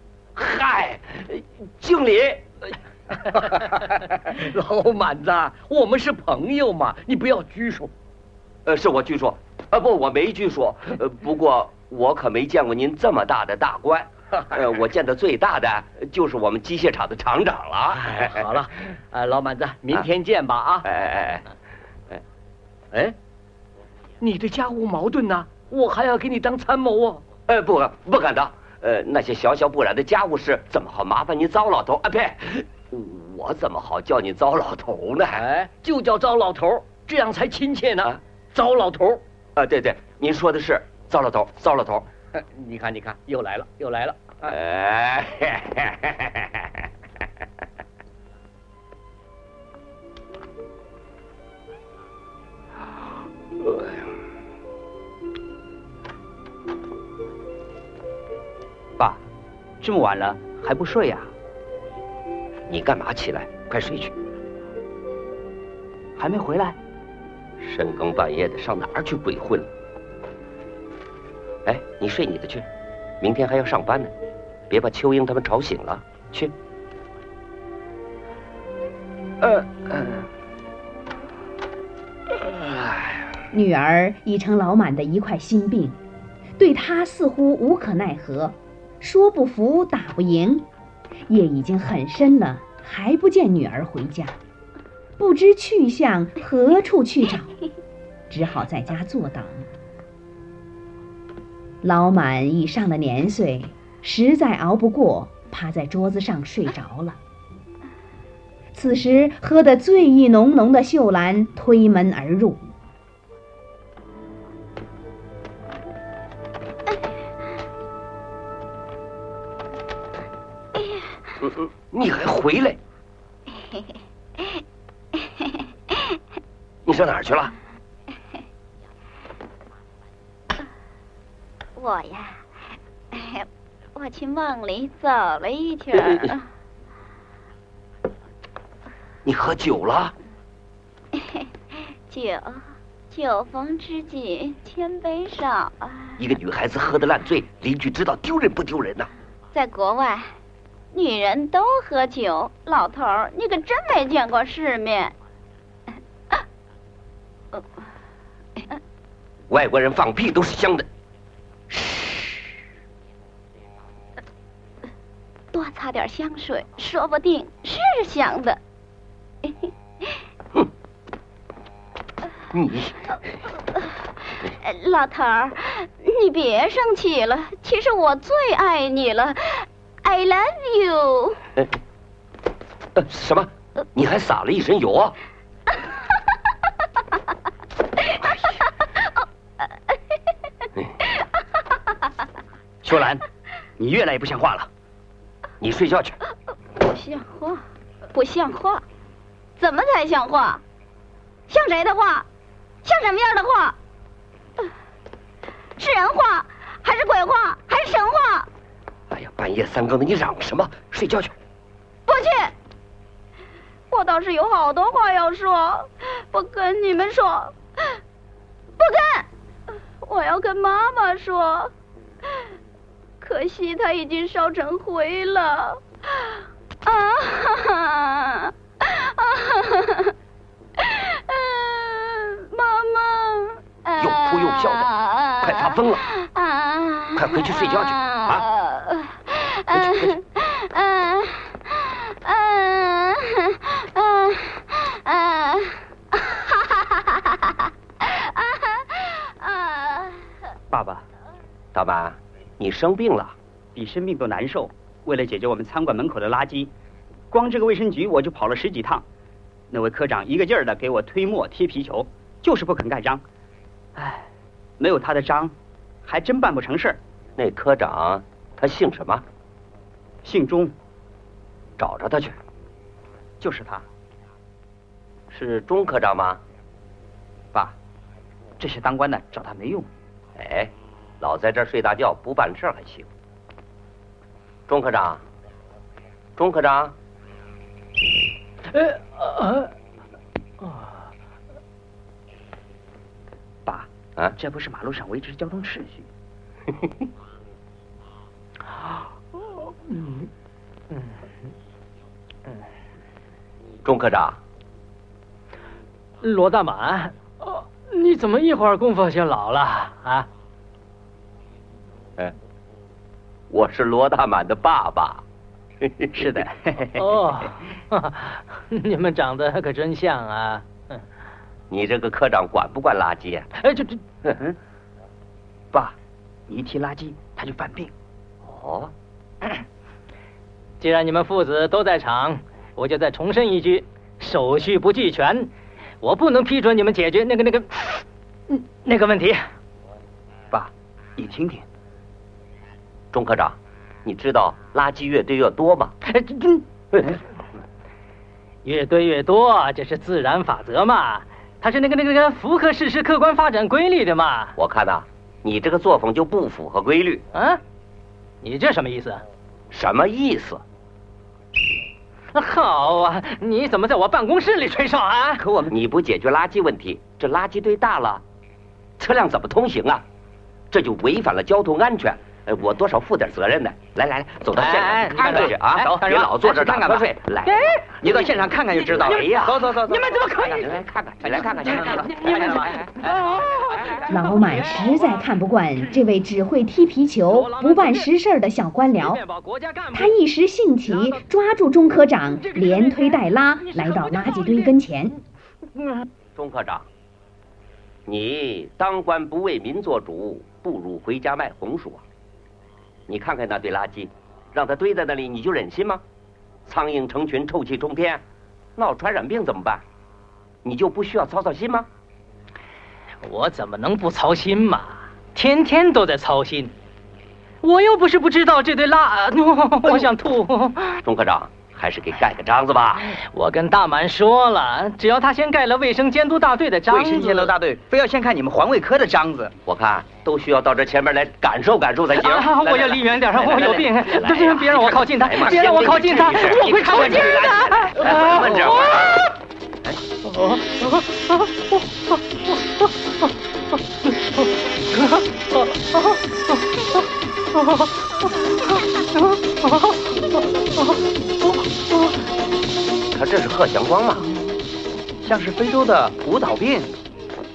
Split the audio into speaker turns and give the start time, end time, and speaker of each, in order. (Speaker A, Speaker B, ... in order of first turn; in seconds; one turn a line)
Speaker A: 0.3-2.8
Speaker B: 3.3-7.9
Speaker A: 8.7-18.5
Speaker B: 17.9-20.9
Speaker A: 20.8-21.5
Speaker B: 24.2-27.2
Speaker A: 27.5-35.4
Speaker B: 35.3-39.2
Speaker A: 39.6-42.1
Speaker B: 42.4-44.5
Speaker A: 44.5-46.6
Speaker A: 53.6-54.0
Speaker C: 59.8-61.3
Speaker A: 62.7-64.1
Speaker C: 66.2-66.8
Speaker A: 67.6-69.7
Speaker A: 71.7-72.7
Speaker A: 73.2-74.1
Speaker A: 74.7-76.5
Speaker A: 79.4-80.2
Speaker A: 82.4-83.2
Speaker D: 83.5-86.0
Speaker D: 86.6-90.7
Speaker D: 91.3-94.4
Speaker D: 95.2-97.5
Speaker D: 98.3-99.7
Speaker D: 101.8-107.2
Speaker D: 108.7-112.6
Speaker A: 121.4-122.8
Speaker E: 123.5-124.6
Speaker E: 125.2-126.2
Speaker A: 126.9-127.5
Speaker E: 131.8-132.4
Speaker E: 133.1-136.4
Speaker A: 135.9-136.3
Speaker A: 139.2-140.2
Speaker E: 141.2-146.2
Speaker A: 146.2-149.1
Speaker E: 149.5-150.3
Speaker E: 150.9-155.2
Speaker A: 159.5-160.9
Speaker E: 165.5-168.6
Speaker E: 169.4-170.2
Speaker A: 172.5-173.0
Speaker E: 174.5-181.4
Speaker A: 183.0-185.2
Speaker C: 192.8-193.2
Speaker C: 193.8-194.7
Speaker A: 195.6-196.2
Speaker E: 196.8-198.8
Speaker E: 199.6-200.6
Speaker E: 201.5-202.3
Speaker E: 202.8-203.8
Speaker E: 205.8-208.5
Speaker A: 209.1-211.3
Speaker E: 212.1-212.6
Speaker E: 213.9-218.0
Speaker E: 218.8-219.3
Speaker E: 220.0-221.7
Speaker E: 223.2-226.3
Speaker E: 226.8-230.1
Speaker E: 230.8-250.2
Speaker A: 234.0-236.1
Speaker A: 237.2-238.5
Speaker A: 239.7-240.1
Speaker C: 250.7-251.1
Speaker A: 251.7-253.3
Speaker C: 253.8-256.7
Speaker C: 257.3-259.1
Speaker C: 259.7-263.2
Speaker C: 264.0-264.3
Speaker C: 264.8-267.0
Speaker A: 267.4-269.2
Speaker C: 270.2-270.7
Speaker A: 271.8-272.4
Speaker C: 273.4-273.9
Speaker A: 275.3-276.4
Speaker C: 278.6-279.9
Speaker A: 280.4-283.1
Speaker A: 284.7-285.2
Speaker A: 286.4-287.0
Speaker F: 288.7-289.7
Speaker C: 293.7-296.1
Speaker F: 299.9-300.2
Speaker F: 300.9-301.2
Speaker A: 303.8-304.4
Speaker F: 306.2-310.3
Speaker A: 313.5-315.2
Speaker A: 315.8-316.5
Speaker C: 316.2-317.0
Speaker F: 317.0-321.1
Speaker A: 321.7-323.5
Speaker F: 323.6-324.0
Speaker C: 326.5-327.9
Speaker A: 328.4-328.9
Speaker F: 330.8-335.5
Speaker F: 336.0-339.5
Speaker C: 340.5-341.7
Speaker A: 343.1-346.0
Speaker F: 346.1-346.6
Speaker A: 346.9-347.2
Speaker F: 348.6-354.6
Speaker A: 354.6-357.2
Speaker F: 357.3-357.6
Speaker F: 358.4-359.2
Speaker A: 359.7-360.6
Speaker F: 362.3-365.4
Speaker C: 365.4-365.7
Speaker A: 365.7-368.2
Speaker A: 369.0-370.0
Speaker A: 370.7-379.8
Speaker F: 374.6-376.0
Speaker C: 375.1-382.6
Speaker A: 380.4-382.9
Speaker F: 381.9-385.0
Speaker D: 384.1-389.2
Speaker F: 387.3-388.1
Speaker F: 388.9-390.2
Speaker D: 389.9-395.2
Speaker F: 390.9-391.2
Speaker F: 392.4-394.7
Speaker F: 395.8-396.0
Speaker A: 396.4-396.9
Speaker A: 398.1-402.0
Speaker A: 403.1-406.0
Speaker A: 406.7-408.2
Speaker A: 408.8-409.9
Speaker A: 410.6-411.9
Speaker F: 413.2-416.7
Speaker F: 417.6-421.0
Speaker A: 421.0-423.1
Speaker F: 423.0-427.5
Speaker C: 426.9-429.6
Speaker A: 429.7-439.2
Speaker F: 432.2-439.2
Speaker C: 436.7-437.8
Speaker F: 440.3-441.4
Speaker A: 453.1-454.3
Speaker C: 455.2-456.9